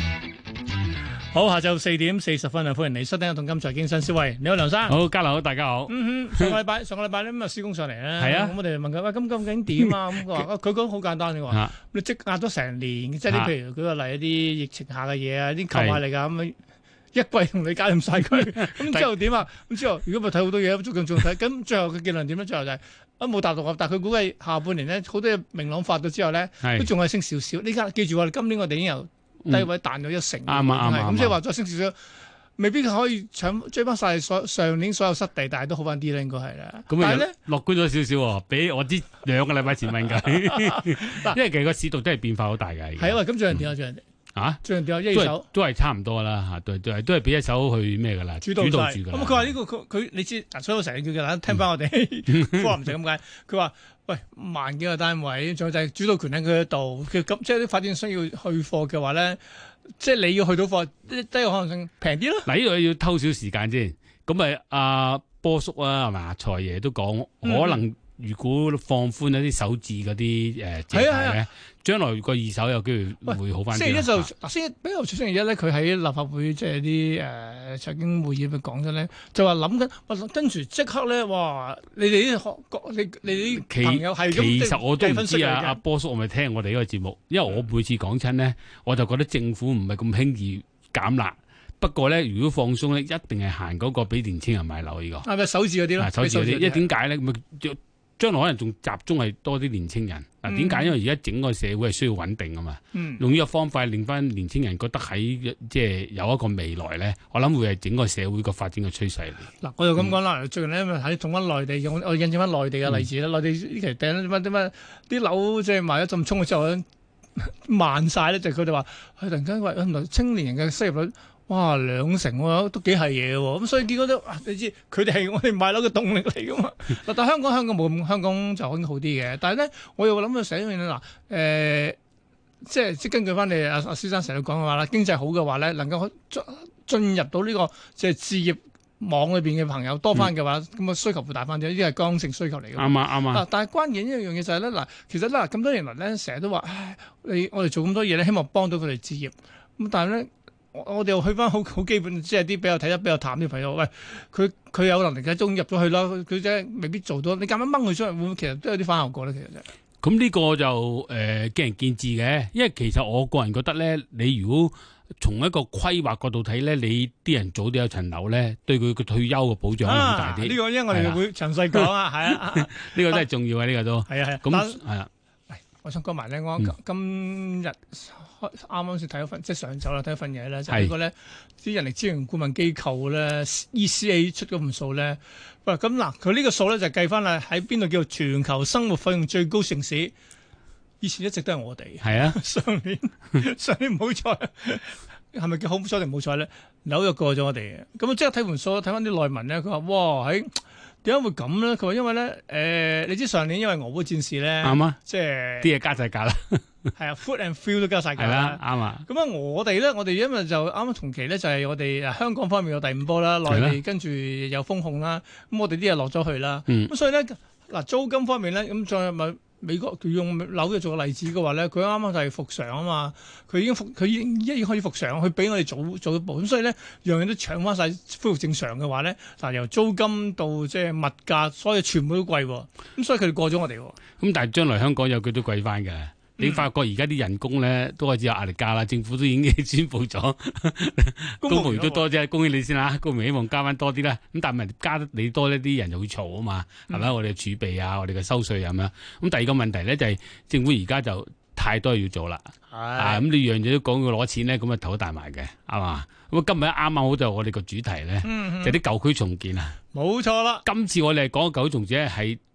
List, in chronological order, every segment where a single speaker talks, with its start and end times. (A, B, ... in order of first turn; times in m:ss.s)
0:01.3-0:05.0 A
0:04.8-0:06.6 B
0:05.9-0:16.6 A
0:08.2-0:08.6 B
0:09.8-0:10.4 B
0:15.7-0:16.0 B
0:17.1-0:32.0 A
0:18.7-0:19.1 B
0:26.6-0:26.9 B
0:30.5-0:31.4 B
0:32.6-0:37.3 A
0:36.9-0:43.6 B
0:40.2-0:41.4 A
0:43.0-0:44.0 A
0:44.3-0:49.5 B
0:44.6-0:45.5 A
0:48.4-0:59.4 A
0:52.4-0:52.7 B
1:00.0-1:02.5 A
1:02.4-1:14.3 B
1:07.4-1:07.8 A
1:10.9-1:11.4 A
1:13.2-1:25.8 A
1:23.2-1:35.3 B
1:35.2-1:36.8 A
1:36.0-1:49.5 B
1:40.4-1:40.9 A
1:42.9-1:43.2 A
1:49.6-1:56.8 A
1:57.4-2:12.0 A
2:12.6-2:39.7 A
2:22.8-2:23.4 B
2:40.0-2:55.1 B
2:49.8-2:53.2 A
2:54.0-2:54.8 A
2:55.5-3:10.1 A
3:00.7-3:00.9 B
3:11.0-3:25.7 A
3:12.0-3:12.4 B
3:24.6-3:25.0 B
3:25.6-3:26.6 B
3:27.0-3:54.0 A
3:28.2-3:29.0 B
3:33.5-3:33.8 B
3:54.2-4:19.8 B
3:56.4-3:56.6 A
4:01.4-4:02.0 A
4:12.7-4:13.3 A
4:18.2-4:18.8 A
4:19.9-4:20.6 A
4:20.6-4:22.4 B